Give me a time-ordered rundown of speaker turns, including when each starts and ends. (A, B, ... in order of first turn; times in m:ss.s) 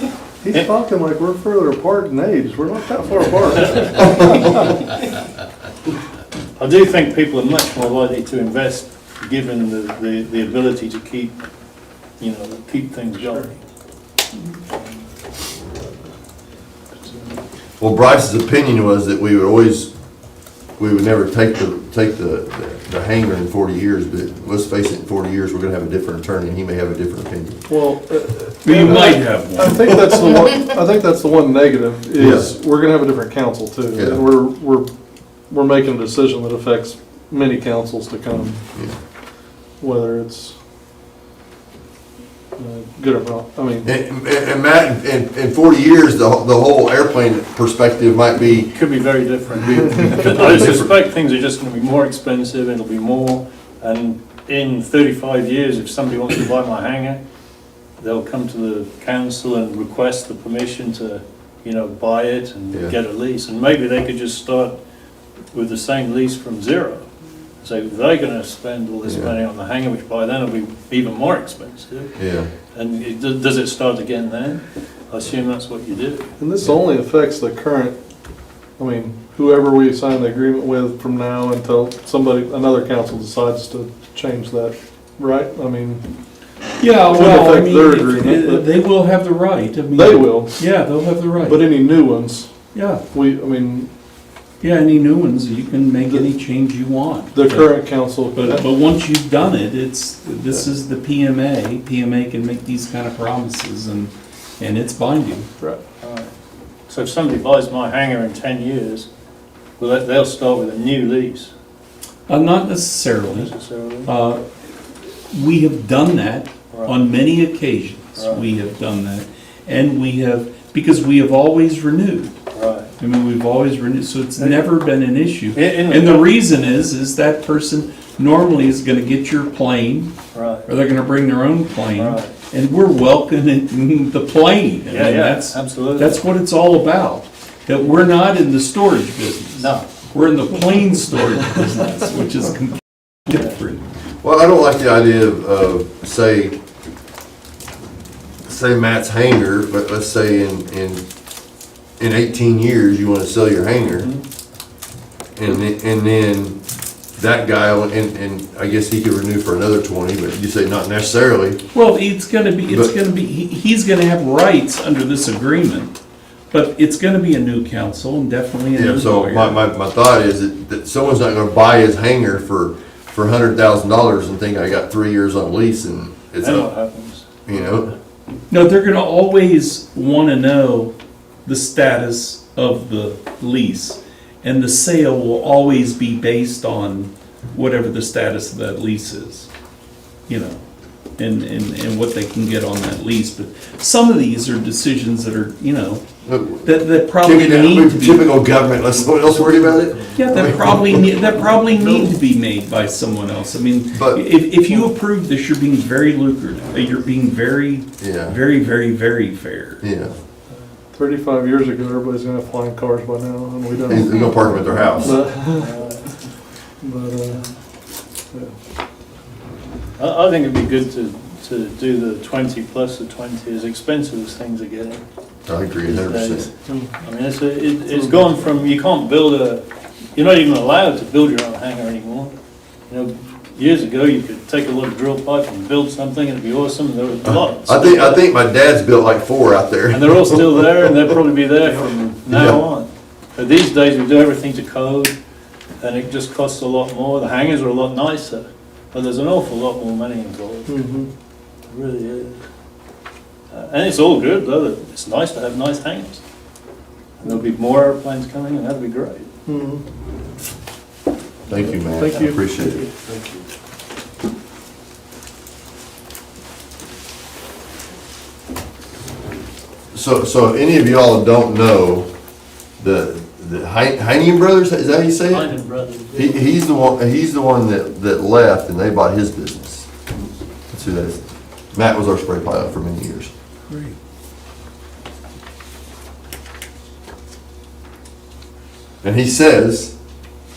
0:00.4-0:04.9 A
0:03.8-0:04.2 B
0:06.6-0:11.4 B
0:12.2-0:13.6 B
0:17.8-0:19.9 C
0:20.8-0:27.6 C
0:27.7-0:34.9 A
0:28.6-0:29.9 D
0:28.8-0:29.1 C
0:32.2-0:32.5 C
0:33.9-0:34.2 C
0:35.5-0:38.6 A
0:39.8-0:40.5 A
0:42.6-0:43.9 A
0:43.8-0:48.7 C
0:48.7-0:57.2 B
0:49.6-0:50.9 C
0:58.0-1:04.8 B
1:05.5-1:07.1 B
1:07.6-1:12.1 B
1:09.0-1:09.3 C
1:12.2-1:12.5 C
1:12.7-1:16.3 B
1:16.4-1:18.0 A
1:18.8-1:26.0 A
1:26.8-1:31.7 D
1:27.0-1:28.6 A
1:29.9-1:30.7 A
1:31.4-1:32.5 A
1:32.7-1:33.0 D
1:33.1-1:33.9 A
1:34.6-1:45.5 D
1:37.3-1:38.6 A
1:46.0-1:46.3 B
1:46.9-1:49.1 B
1:49.8-1:51.5 B
1:52.3-1:53.5 D
1:53.3-1:54.1 B
1:54.0-1:54.4 D
1:55.3-2:02.3 D
1:56.7-1:57.0 B
1:58.2-1:58.4 B
2:02.5-2:02.9 B
2:03.0-2:10.1 D
2:05.5-2:06.3 B
2:10.3-2:10.7 B
2:10.7-2:23.8 D
2:12.0-2:12.3 B
2:14.9-2:16.2 B
2:19.6-2:19.9 B
2:24.2-2:26.6 C
2:28.4-2:31.0 C
2:32.0-2:34.1 C
2:35.4-2:36.6 C
2:37.2-2:41.6 C
2:41.7-2:46.0 D
2:46.5-2:49.6 D
2:48.7-2:56.7 C
2:56.4-2:57.3 B
2:57.4-2:57.9 C
2:58.5-3:00.9 D
3:01.4-3:09.5 D
3:10.3-3:10.6 D
3:11.2-3:16.0 D
3:16.2-3:21.2 C
3:16.6-3:18.2 D
3:20.1-3:29.8 D
3:23.9-3:24.2 C
3:28.0-3:28.4 C
3:29.8-3:30.1 C
3:30.9-3:34.3 A
3:33.9-3:35.2 C
3:34.9-3:35.7 A
3:35.4-3:36.2 B
3:36.8-3:37.4 A
3:40.0-3:45.0 B
3:45.4-3:46.5 C
3:45.8-3:46.5 B
3:47.0-3:52.3 B
3:52.9-3:58.2 B
3:57.2-4:00.6 C
3:59.9-4:05.2 B
4:02.3-4:02.6 C
4:05.8-4:10.8 B
4:10.7-4:11.1 A
4:11.7-4:12.4 B
4:13.5-4:16.2 B
4:17.2-4:19.3 B
4:19.4-4:19.8 A
4:21.5-4:22.8 C
4:21.5-4:23.4 B
4:21.9-4:22.4 A
4:29.9-4:32.1 C
4:32.8-4:35.5 C
4:35.3-4:36.4 B
4:36.1-4:39.9 C
4:40.7-4:41.2 C
4:41.7-4:43.3 C
4:43.7-4:44.0 D
4:49.0-4:49.9 C